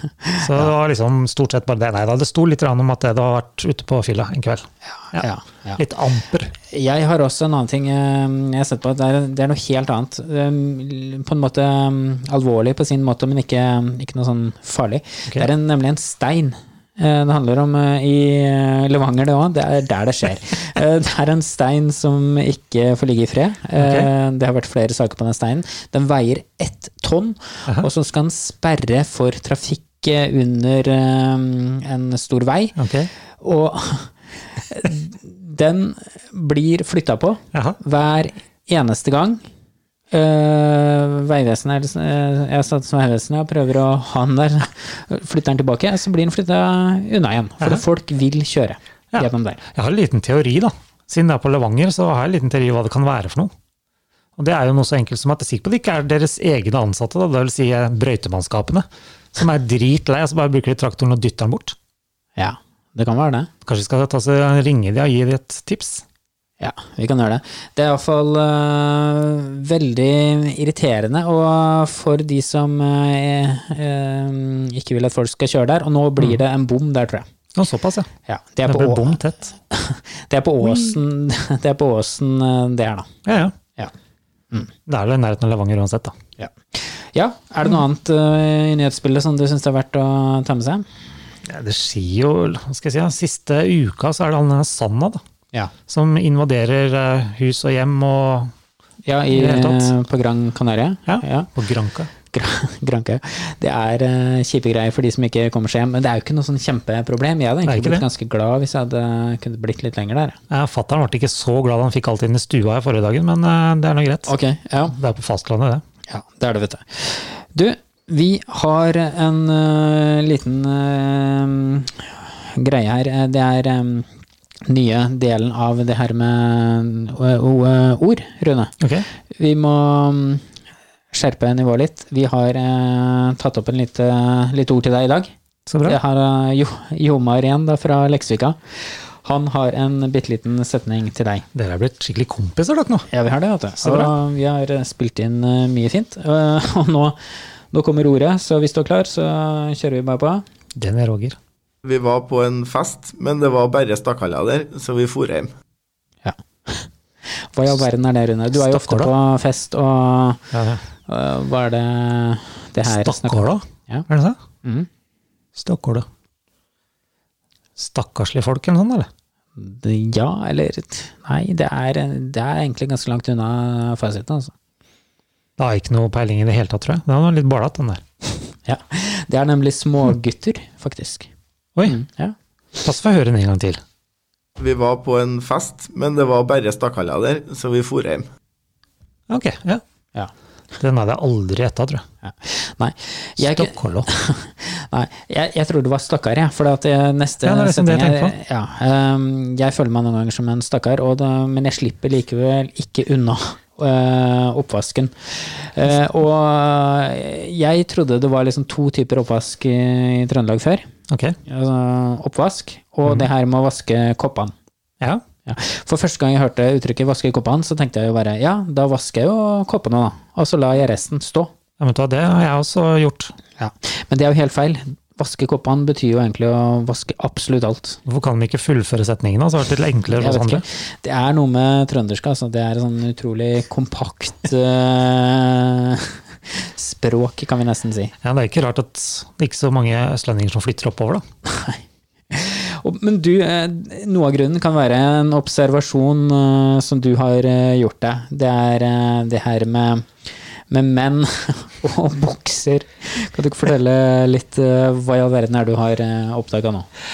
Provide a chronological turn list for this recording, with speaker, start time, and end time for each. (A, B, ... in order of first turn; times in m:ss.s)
0:00.2-0:00.7 A
0:00.4-0:06.5 B
0:05.0-0:05.8 A
0:06.7-0:32.7 A
0:23.8-0:24.1 B
0:32.8-0:33.1 B
0:33.4-0:39.4 A
0:40.1-0:49.6 A
0:49.1-0:53.5 B
0:54.4-1:01.8 B
1:02.4-1:03.5 A
1:03.6-1:06.0 B
1:06.6-1:17.2 A
1:17.6-1:18.1 B
1:18.3-1:23.1 A
1:18.6-1:19.5 B
1:20.6-1:20.9 B
1:23.2-1:23.5 B
1:24.9-1:26.1 B
1:26.4-1:30.8 A
1:31.5-1:35.2 B
1:35.9-1:38.5 B
1:39.0-1:41.5 A
1:39.3-1:39.9 B
1:41.1-1:42.1 B
1:42.3-1:50.4 A
1:47.6-1:48.0 B
1:50.5-1:54.3 B
1:54.3-1:55.0 A
1:54.9-1:55.8 B
1:56.1-2:04.1 A
2:04.7-2:08.7 A
2:08.8-2:09.0 B
2:09.3-2:10.4 A
2:11.1-2:15.3 A
2:15.7-2:16.0 B
2:15.8-2:21.4 A
2:21.5-2:23.1 B
2:23.1-2:27.2 A
2:23.8-2:24.1 B
2:27.7-2:30.4 A
2:30.8-2:31.4 B
2:31.8-2:35.5 C
2:36.2-2:40.4 A
2:38.5-2:39.1 B
2:40.5-2:40.8 B
2:41.1-2:44.0 A
2:42.8-2:44.4 B
2:45.6-2:46.0 B
2:47.8-2:49.1 B
2:49.6-2:54.5 A
2:55.6-2:58.0 B
2:58.6-3:01.3 A
3:01.8-3:02.3 A
3:02.8-3:03.8 B
3:04.6-3:08.3 C
3:09.3-3:09.8 B
3:10.8-3:12.0 B
3:12.2-3:30.9 A
3:13.4-3:14.1 B
3:17.4-3:18.3 B
3:31.1-3:31.4 B
3:31.5-3:34.5 A
3:35.4-3:41.5 A
3:41.8-3:43.3 B
3:43.6-3:48.0 A
3:48.0-3:50.6 B
3:50.1-3:58.1 A
3:58.2-4:01.2 B
4:01.5-4:01.8 A
4:02.3-4:10.1 A
4:10.7-4:16.9 A